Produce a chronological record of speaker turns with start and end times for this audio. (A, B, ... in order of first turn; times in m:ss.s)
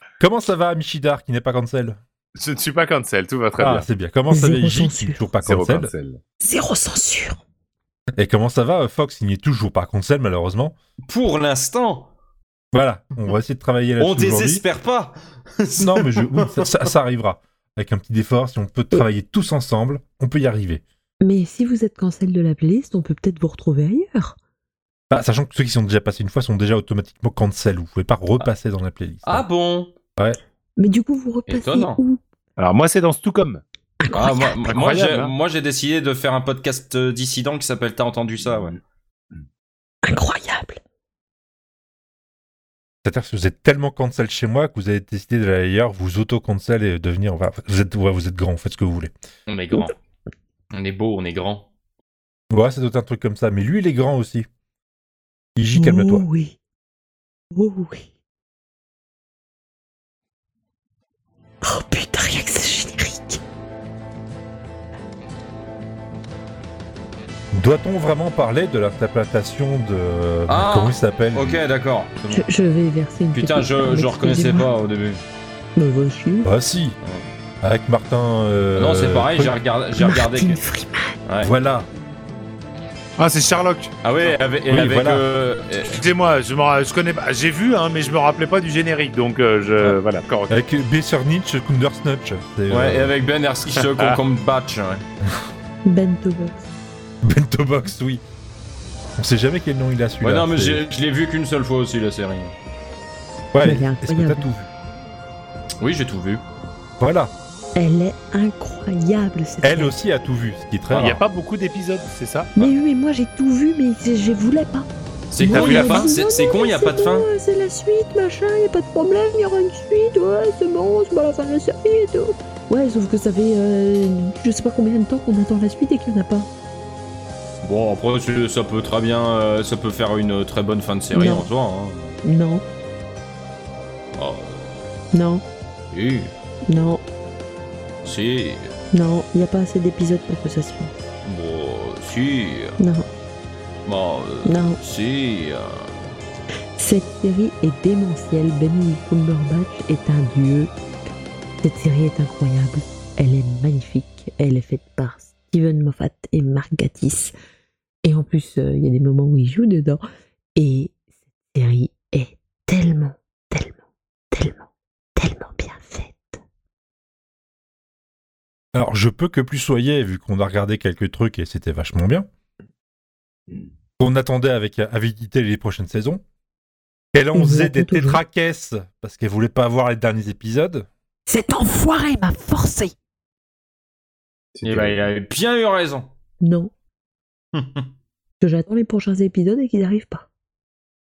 0:00.2-0:02.0 A
0:02.4-0:03.9 B
0:03.6-0:05.9 A
0:04.3-0:05.3 C
0:05.4-0:06.2 B
0:06.4-0:07.4 C
0:08.2-0:10.7 A
0:11.1-0:12.1 D
0:12.7-0:14.6 A
0:14.0-0:16.7 D
0:15.8-0:20.8 A
0:21.2-0:24.4 C
0:25.1-0:29.5 A
0:29.2-0:29.9 D
0:30.8-0:32.2 C
0:31.5-0:32.0 D
0:32.6-0:33.6 B
0:34.0-0:34.7 C
0:34.1-0:38.8 D
0:34.7-0:35.3 B
0:38.4-0:38.8 B
0:40.0-0:40.8 C
0:43.0-0:49.1 A
0:49.5-0:49.9 D
0:50.7-0:51.7 D
0:52.5-0:54.5 A
0:55.6-0:56.2 A
0:55.8-0:56.6 C
0:57.5-0:58.1 C
1:01.6-1:03.4 C
1:07.5-1:11.6 A
1:10.5-1:12.5 D
1:12.3-1:14.7 C
1:13.3-1:15.2 D
1:15.8-1:16.5 C
1:16.4-1:17.0 A
1:17.6-1:19.6 A
1:18.8-1:20.6 D
1:20.0-1:21.2 C
1:21.4-1:21.9 A
1:23.2-1:24.3 B
1:24.0-1:26.0 D
1:24.7-1:25.2 A
1:25.8-1:30.6 B
1:30.5-1:33.1 A
1:32.7-1:35.0 D
1:33.7-1:34.2 B
1:35.8-1:36.6 C
1:37.2-1:38.2 A
1:39.2-1:40.8 A
1:40.2-1:42.5 D
1:43.5-1:44.7 A
1:43.6-1:44.5 C
1:45.8-1:46.4 D
1:47.0-1:47.3 A
1:47.8-1:50.0 C
1:49.6-1:51.2 A
1:50.9-1:51.2 D
1:50.9-1:52.5 B
1:52.6-1:54.9 C
1:55.3-1:57.3 D
1:55.4-2:06.5 C
1:55.4-1:56.1 B
2:07.6-2:12.2 D
2:11.1-2:11.5 C
2:12.2-2:12.6 C
2:14.2-2:14.8 D
2:15.1-2:15.4 C
2:15.9-2:16.3 D
2:16.7-2:17.0 C
2:18.0-2:18.7 D
2:18.9-2:20.9 C
2:21.2-2:22.8 D
2:22.8-2:23.1 C
2:23.8-2:25.9 D
2:24.4-2:24.8 C
2:26.8-2:30.7 C
2:31.6-2:37.3 C
2:38.0-2:40.0 C
2:40.6-2:41.0 C
2:41.5-2:43.8 C
2:44.3-2:46.4 C
2:48.7-2:52.3 A
2:54.0-2:56.2 A
2:57.1-3:00.9 A
2:57.3-2:58.2 C
3:01.3-3:02.9 C
3:04.6-3:05.1 B
3:04.6-3:06.1 D
3:06.4-3:06.7 C
3:07.6-3:07.8 D
3:08.4-3:10.3 C